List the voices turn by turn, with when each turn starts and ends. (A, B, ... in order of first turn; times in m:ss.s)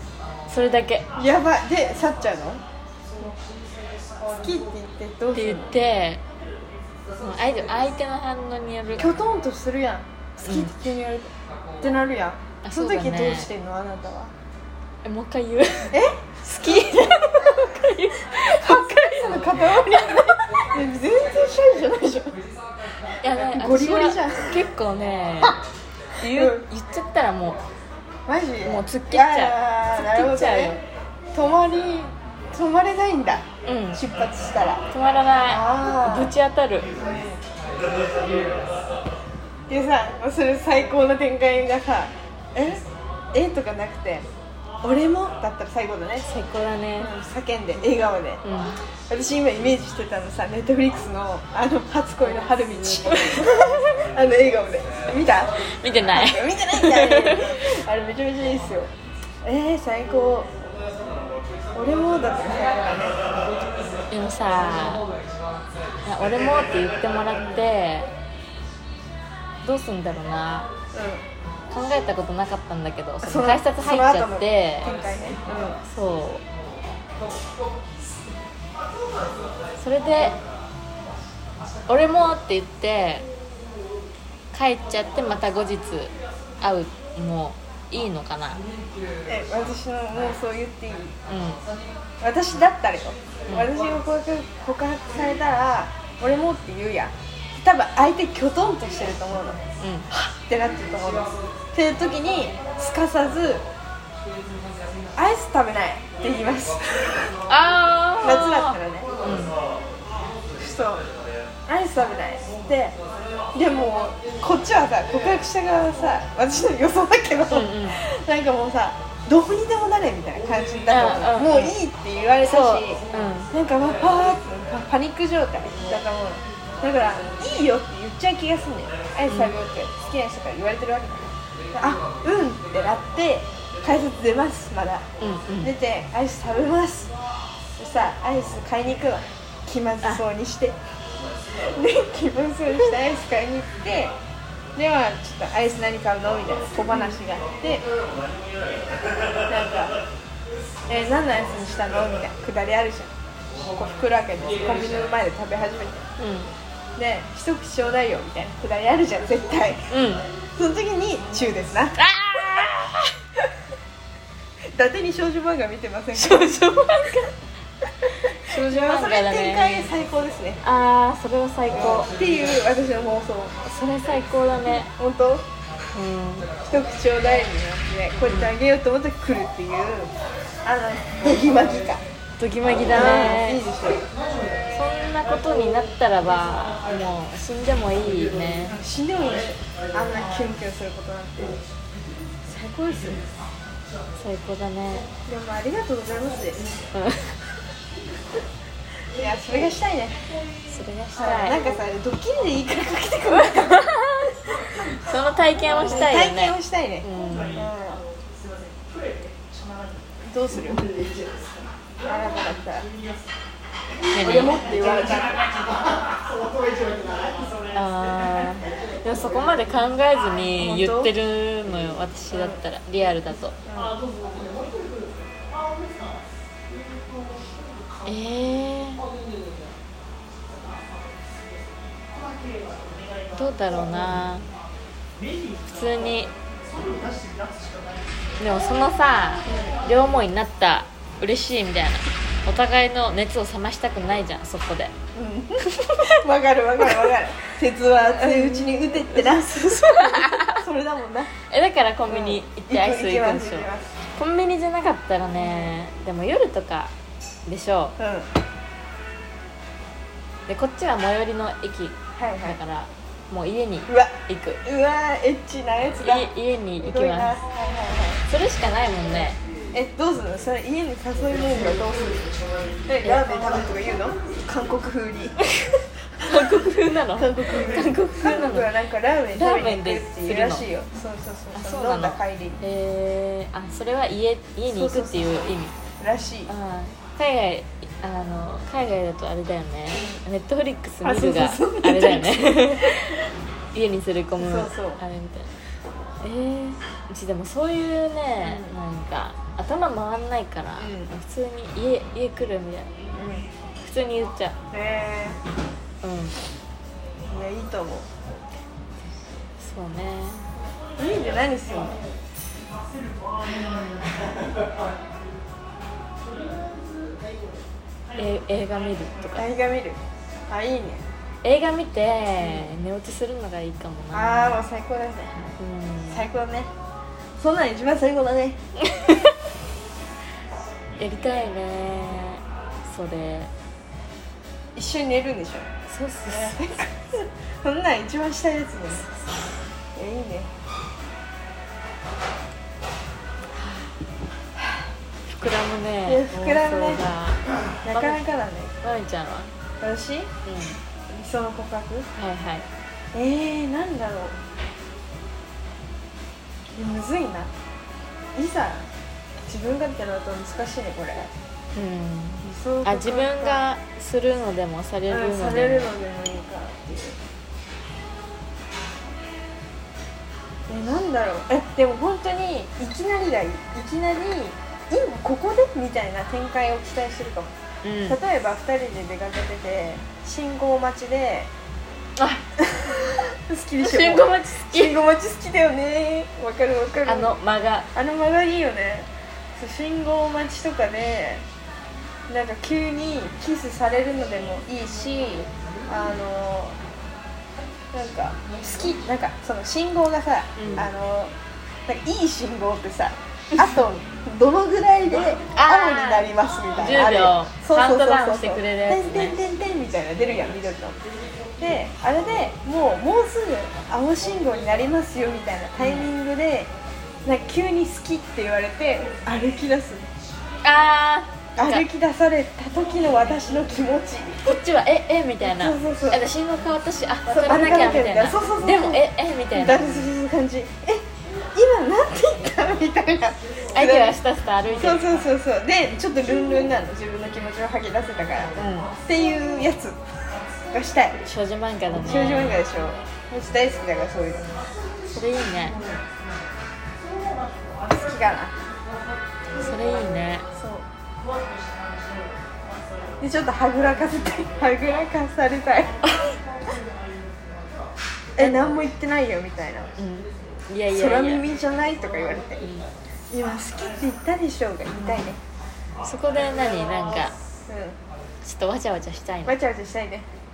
0:00.5-0:01.1 A
0:01.2-0:02.6 B
0:04.3-0:05.8 B
0:05.3-0:06.2 A
0:07.2-0:09.2 A
0:09.0-0:14.3 B
0:10.5-0:10.7 A
0:12.6-0:13.5 A
0:15.0-0:16.0 A
0:15.9-0:22.4 B
0:17.0-0:20.3 A
0:23.2-0:25.6 A
0:23.3-0:24.6 B
0:26.2-0:27.6 A
0:26.2-0:26.6 B
0:28.3-0:30.8 B
0:28.6-0:30.8 A
0:31.3-0:34.8 B
0:33.6-0:34.0 A
0:34.9-0:36.9 A
0:35.4-0:36.3 B
0:37.0-0:37.4 B
0:39.7-0:44.3 B
0:44.8-0:46.3 B
0:46.3-0:47.1 A
0:47.0-0:48.4 B
0:48.4-0:48.8 A
0:49.1-0:58.9 B
0:53.0-0:53.8 A
0:55.6-0:57.8 A
0:59.4-1:00.5 B
1:01.7-1:03.3 B
1:04.1-1:05.1 A
1:06.0-1:08.1 A
1:07.3-1:07.6 B
1:09.6-1:10.7 A
1:10.9-1:11.2 B
1:11.7-1:14.9 A
1:13.2-1:15.8 B
1:15.9-1:16.4 A
1:19.8-1:20.4 A
1:21.9-1:23.3 A
1:24.5-1:28.6 A
1:29.3-1:31.1 B
1:31.3-1:31.6 A
1:32.2-1:43.6 B
1:39.8-1:40.1 A
1:45.2-1:47.4 B
1:47.5-1:49.6 A
1:48.2-1:49.1 B
1:50.6-1:51.1 B
1:51.7-1:53.0 B
1:53.5-2:15.0 B
1:57.5-1:58.0 A
2:00.9-2:01.8 A
2:02.4-2:03.5 A
2:09.3-2:09.6 A
2:15.2-2:15.7 A
2:15.6-2:17.1 B
2:17.8-2:20.8 B
2:21.6-2:24.1 B
2:24.8-2:27.9 B
2:29.5-2:30.0 B
2:30.9-2:36.0 B
2:36.2-2:36.5 A
2:37.0-2:39.9 B
2:39.9-2:40.3 A
2:40.5-2:42.0 B
2:42.0-2:43.1 A
2:44.7-2:46.6 B
2:46.2-2:47.3 A
2:48.1-2:49.9 A
2:48.2-2:50.6 B
2:50.6-2:52.1 A
2:51.7-2:53.6 B
2:53.6-2:54.9 A
2:54.8-2:55.5 B
2:55.9-2:56.5 A
2:56.7-3:00.1 B
2:58.3-2:58.5 A
3:00.6-3:02.0 B
3:02.4-3:03.6 A
3:02.8-3:04.0 B
3:04.7-3:08.8 A
3:08.7-3:11.6 B
3:12.4-3:13.2 B
3:14.2-3:15.1 A
3:15.3-3:16.8 B
3:16.9-3:17.4 A
3:19.1-3:20.2 B
3:20.7-3:21.6 A
3:21.2-3:23.9 B
3:23.4-3:27.7 A
3:25.8-3:28.0 B
3:30.2-3:30.9 B
3:32.0-3:32.9 B
3:34.1-3:34.6 A
3:34.2-3:35.5 B
3:37.7-3:43.6 A
3:40.6-3:41.1 B
3:42.3-3:42.6 B
3:43.7-3:44.0 B
3:48.0-3:49.0 A
3:53.3-3:54.5 A
3:55.6-3:56.3 A
3:58.4-4:04.9 A
3:59.5-3:59.8 B
4:05.1-4:11.3 B
4:05.7-4:06.1 A
4:08.2-4:08.9 A
4:09.5-4:10.6 A
4:11.4-4:16.9 A
4:12.1-4:14.0 B
4:15.4-4:15.6 B
4:17.5-4:18.0 A
4:18.0-4:18.3 B
4:20.5-4:24.6 A
4:22.2-4:22.6 B
4:23.9-4:26.3 B
4:26.0-4:27.4 A
4:26.8-4:28.2 B
4:28.3-4:29.4 A
4:29.7-4:32.3 B
4:32.9-4:35.4 B
4:36.2-4:38.7 A
4:36.2-4:36.6 B
4:37.2-4:42.6 B
4:39.4-4:40.7 A
4:41.5-4:45.8 A
4:44.7-4:45.3 B
4:46.0-4:46.5 B
4:46.5-4:55.5 A
4:49.9-4:50.2 B
4:51.0-4:53.2 B
4:54.4-4:55.0 B
4:56.2-5:02.9 A
4:58.4-4:58.8 B
5:00.8-5:01.1 B
5:03.2-5:03.5 B
5:03.8-5:04.6 A
5:04.7-5:05.4 B
5:06.0-5:06.4 A
5:07.3-5:08.1 B
5:09.6-5:10.5 A
5:11.0-5:12.0 B
5:13.5-5:14.0 A
5:18.2-5:19.5 A
5:19.4-5:21.0 B
5:21.4-5:24.6 A
5:22.4-5:22.7 B
5:24.1-5:25.5 B
5:25.6-5:26.3 A
5:26.1-5:26.7 B
5:27.4-5:28.6 B
5:28.9-5:29.2 A
5:31.0-5:33.5 A
5:34.8-5:35.7 B
5:35.9-5:36.6 A
5:36.3-5:39.1 B
5:40.0-5:40.5 B
5:44.6-5:44.8 B
5:45.3-5:48.2 A
5:46.1-5:47.0 B
5:47.8-5:48.7 B
5:48.8-5:49.5 A
5:49.8-5:50.3 B
5:50.4-5:50.8 A
5:51.1-5:52.1 B
5:52.2-5:52.7 A
5:53.1-5:54.4 B
5:56.7-5:57.5 B
5:58.4-5:58.9 B
5:59.4-6:01.3 B
6:01.7-6:05.9 A
6:02.4-6:03.7 B
6:05.1-6:07.2 B
6:10.7-6:17.5 B
6:17.8-6:18.2 A
6:18.1-6:21.5 B
6:22.2-6:22.4 A
6:22.6-6:27.3 B
6:23.8-6:25.0 A
6:27.0-6:27.9 A
6:27.9-6:31.4 B
6:32.3-6:36.8 B
6:37.9-6:41.3 B
6:40.6-6:40.9 A
6:41.9-6:51.0 B
6:45.5-6:49.4 A
6:51.6-6:56.7 B
6:55.8-6:56.1 A
6:57.2-7:00.1 B
7:00.6-7:01.9 A
7:01.6-7:04.4 B
7:04.4-7:10.1 A
7:05.4-7:06.3 B
7:07.3-7:14.2 B
7:13.7-7:15.1 A
7:14.8-7:20.0 B
7:18.6-7:18.9 A
7:20.7-7:21.2 B
7:21.3-7:22.7 A
7:21.9-7:24.5 B
7:25.1-7:25.8 A
7:27.9-7:28.6 B
7:29.5-7:30.5 A
7:30.6-7:30.9 B
7:33.2-7:36.0 B
7:38.4-7:39.9 B
7:40.0-7:41.4 A
7:40.9-7:42.6 B
7:42.6-7:42.9 A
7:43.3-7:45.4 B
7:46.0-7:47.4 A
7:47.7-7:48.0 B
7:48.4-7:49.6 A
7:49.4-7:50.3 B